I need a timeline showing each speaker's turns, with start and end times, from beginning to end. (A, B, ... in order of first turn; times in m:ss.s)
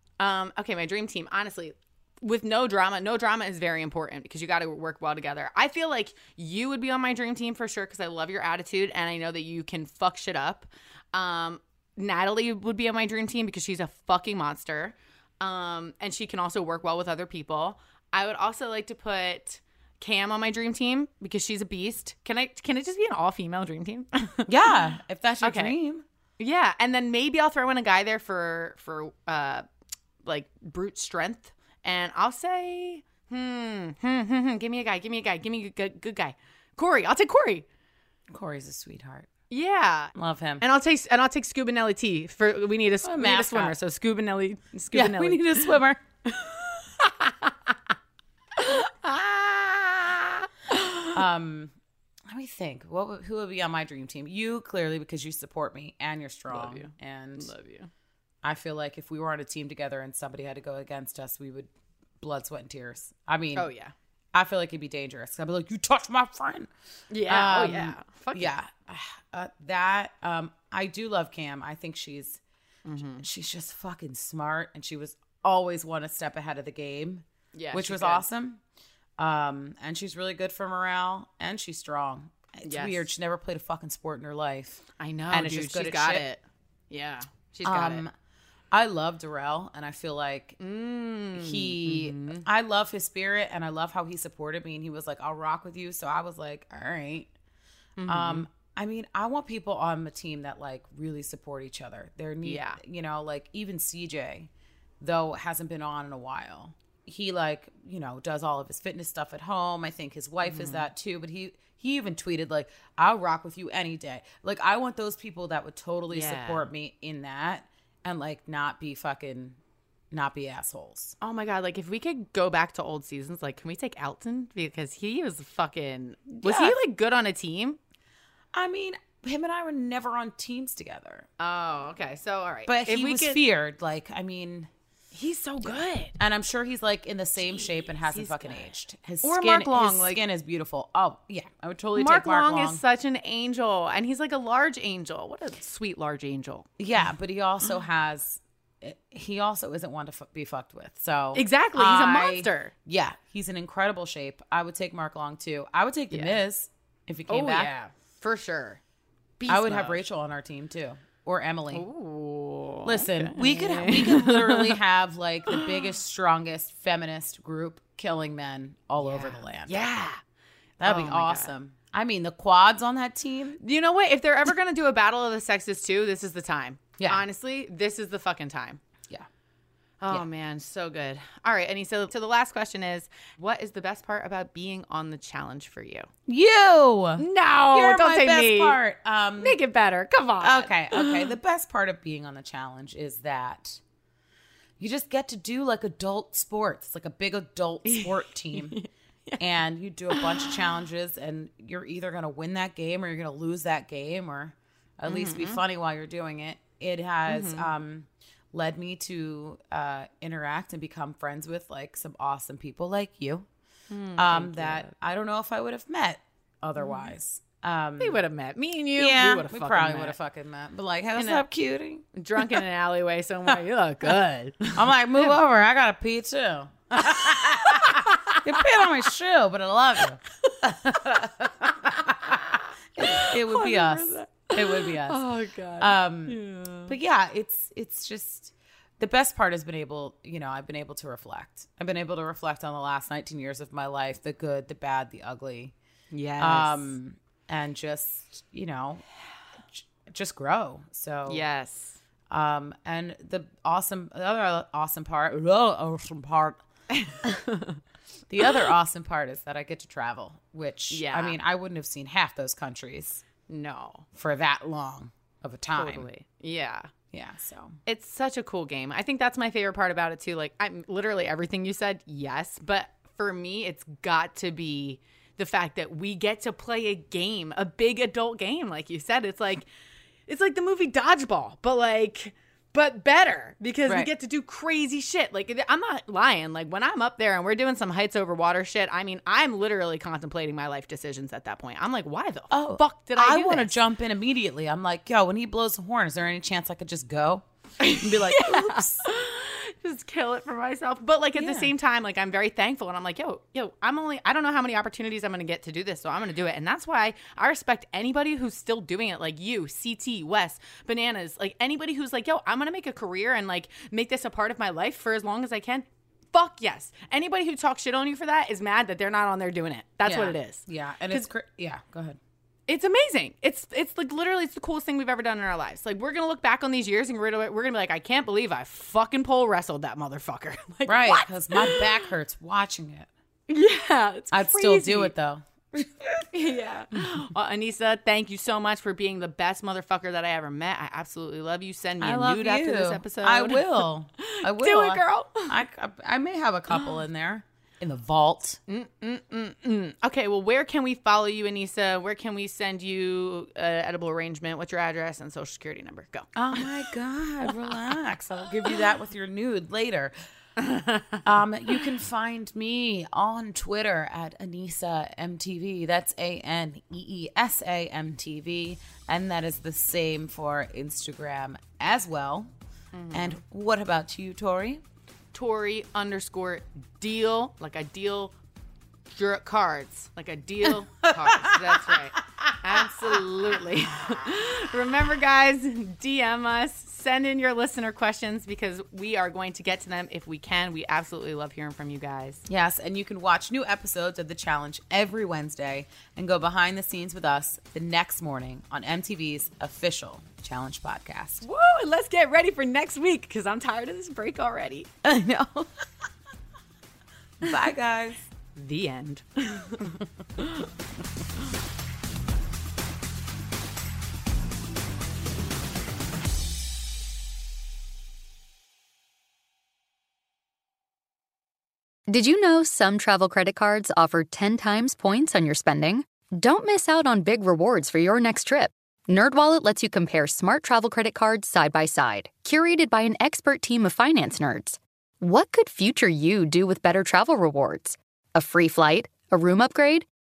0:00.2-0:24.7 A
0:24.5-0:26.0 B
0:25.4-0:25.8 A
0:26.4-0:29.6 A
0:30.2-0:37.6 A
0:38.3-0:39.3 B
0:39.5-0:45.6 A
0:40.1-0:40.6 B
0:43.0-0:43.8 B
0:44.9-0:46.0 B
0:46.3-0:47.5 A
0:48.6-0:51.1 A
0:51.1-0:51.7 B
0:52.3-0:57.5 B
0:56.5-0:57.9 A
0:58.4-1:01.7 B
1:02.2-1:03.7 B
1:03.6-1:03.9 A
1:04.3-1:06.7 B
1:07.1-1:08.6 A
1:07.2-1:12.4 B
1:12.8-1:13.2 A
1:13.2-1:18.6 B
1:17.5-1:18.2 A
1:19.2-1:26.2 B
1:22.6-1:23.0 A
1:25.0-1:28.0 A
1:27.6-1:28.1 B
1:28.7-1:30.6 B
1:30.6-1:32.4 A
1:31.3-1:37.3 B
1:38.0-1:38.5 A
1:38.0-1:44.5 B
1:42.4-1:42.8 A
1:45.0-1:59.6 B
1:50.4-1:50.9 A
1:56.1-1:56.7 A
2:00.1-2:01.2 B
2:01.2-2:07.8 A
2:06.4-2:06.8 B
2:08.5-2:11.3 B
2:11.4-2:13.4 A
2:12.6-2:14.7 B
2:15.1-2:16.1 A
2:15.6-2:22.8 B
2:17.4-2:18.7 A
2:19.2-2:20.2 A
2:21.9-2:26.7 A
2:26.8-2:37.7 B
2:31.3-2:32.7 A
2:36.1-2:36.3 A
2:37.3-2:38.8 A
2:39.4-2:40.0 A
2:39.5-2:41.8 B
2:41.7-2:44.8 A
2:42.8-2:49.8 B
2:49.0-2:50.2 A
2:50.8-2:53.6 B
2:50.8-2:51.5 A
2:53.6-2:58.8 A
2:57.0-2:57.2 B
3:00.0-3:06.1 A
3:06.3-3:09.6 B
3:07.2-3:08.8 A
3:09.4-3:11.3 A
3:10.4-3:13.8 B
3:14.8-3:18.8 B
3:17.8-3:19.4 A
3:19.4-3:33.5 B
3:20.1-3:20.5 A
3:25.1-3:25.6 A
3:27.3-3:27.7 A
3:33.9-3:34.9 A
3:34.2-3:38.2 B
3:36.8-3:37.1 A
3:38.0-3:40.2 A
3:38.9-3:42.6 B
3:41.2-3:41.4 A
3:42.1-3:44.8 A
3:44.7-4:05.7 B
3:47.0-3:48.8 A
3:51.6-3:56.9 A
4:06.1-4:07.0 A
4:06.4-4:09.0 B
4:09.7-4:11.4 B
4:11.3-4:12.0 A
4:12.3-4:16.6 B
4:16.9-4:17.8 A
4:18.3-4:23.2 B
4:20.9-4:21.4 A
4:23.5-4:24.0 A
4:24.1-4:26.1 B
4:25.8-4:26.9 A
4:27.1-4:27.8 B
4:27.8-4:39.7 A
4:40.3-4:53.7 A
4:52.5-4:57.4 B
4:57.8-5:21.3 A
4:58.0-4:59.1 B
5:01.4-5:01.7 B
5:20.0-5:22.2 B
5:22.7-5:31.9 A
5:30.8-5:33.1 B
5:33.5-5:35.1 A
5:34.3-5:36.3 B
5:36.3-5:45.6 A
5:42.0-5:48.6 B
5:48.7-5:56.7 A
5:56.3-6:00.1 B
6:00.6-6:01.2 A
6:01.2-6:12.5 B
6:12.9-6:13.4 A
6:13.1-6:14.8 B
6:15.3-6:18.3 A
6:19.1-6:32.4 A
6:21.1-6:21.6 B
6:32.5-6:41.4 B
6:41.4-6:44.9 A
6:45.0-6:45.8 B
6:47.4-6:48.3 B
6:48.5-6:50.6 A
7:02.1-7:20.1 C